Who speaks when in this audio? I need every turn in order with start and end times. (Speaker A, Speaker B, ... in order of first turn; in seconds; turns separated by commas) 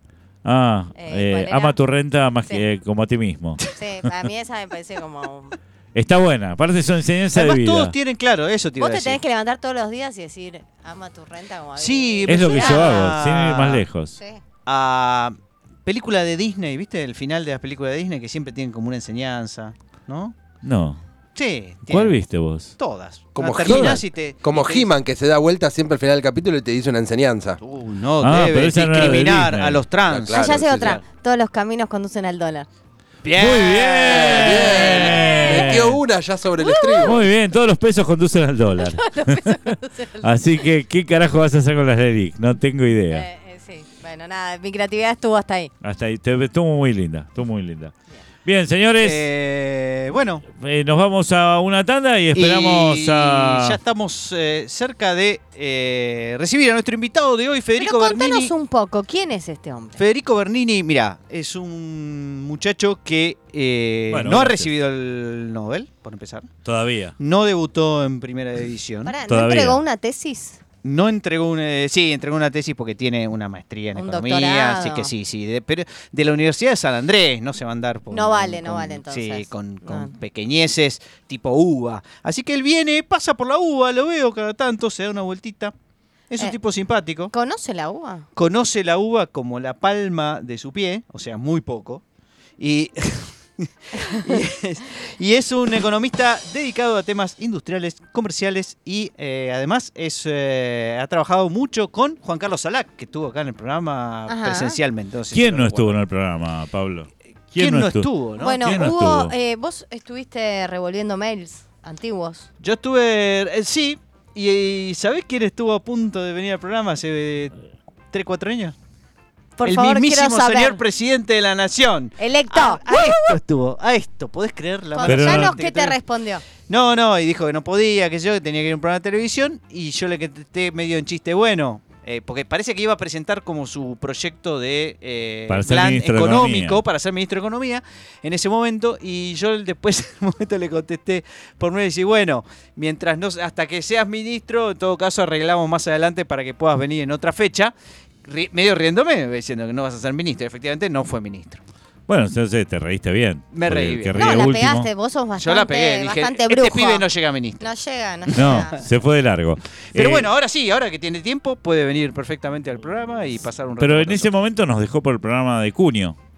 Speaker A: 0.4-3.6, Speaker B: 0.9-1.8, Speaker B: 3.7-5.6, Speaker A: 5.9-7.9, Speaker C: 7.3-9.2, Speaker B: 8.8-13.1, Speaker C: 11.8-13.8, Speaker A: 12.3-14.2, Speaker C: 14.7-20.3, Speaker A: 20.6-21.0, Speaker C: 21.4-22.2, Speaker A: 21.9-22.7, Speaker C: 22.8-24.9, Speaker D: 23.3-27.6, Speaker A: 23.6-24.0, Speaker C: 27.6-31.0, Speaker A: 28.2-29.8, Speaker D: 30.1-31.0, Speaker B: 30.3-32.7, Speaker C: 33.2-35.4, Speaker A: 33.3-36.0, Speaker D: 34.1-37.3, Speaker B: 35.0-35.7, Speaker B: 36.6-37.2, Speaker A: 37.0-43.2, Speaker B: 38.8-40.3, Speaker B: 43.1-45.7, Speaker A: 45.8-47.9, Speaker A: 48.4-49.3, Speaker C: 49.0-50.5, Speaker A: 50.6-53.8, Speaker C: 52.3-58.5, Speaker B: 57.8-60.0, Speaker C: 60.0-66.5, Speaker A: 64.1-64.7, Speaker A: 66.6-67.2, Speaker C: 67.2-69.1, Speaker B: 69.0-70.6, Speaker A: 69.3-69.8, Speaker C: 70.8-85.7, Speaker B: 73.9-75.1, Speaker B: 78.1-80.1, Speaker C: 86.3-87.3, Speaker B: 87.3-88.3, Speaker C: 88.3-92.0, Speaker C: 92.6-106.0, Speaker B: 104.3-104.8, Speaker A: 105.3-109.3, Speaker C: 107.5-108.8, Speaker B: 108.4-112.5, Speaker C: 112.6-117.5, Speaker C: 118.1-118.7, Speaker B: 119.6-120.8, Speaker C: 119.6-126.0, Speaker B: 122.2-123.3, Speaker B: 124.9-126.4, Speaker A: 125.0-125.6, Speaker C: 126.7-147.7, Speaker A: 135.5-136.8, Speaker C: 148.2-151.6, Speaker A: 152.1-154.9, Speaker C: 153.5-154.4, Speaker B: 154.2-157.1, Speaker C: 155.4-157.6, Speaker B: 157.6-158.8, Speaker A: 158.3-160.3, Speaker C: 159.9-164.3, Speaker A: 163.8-166.2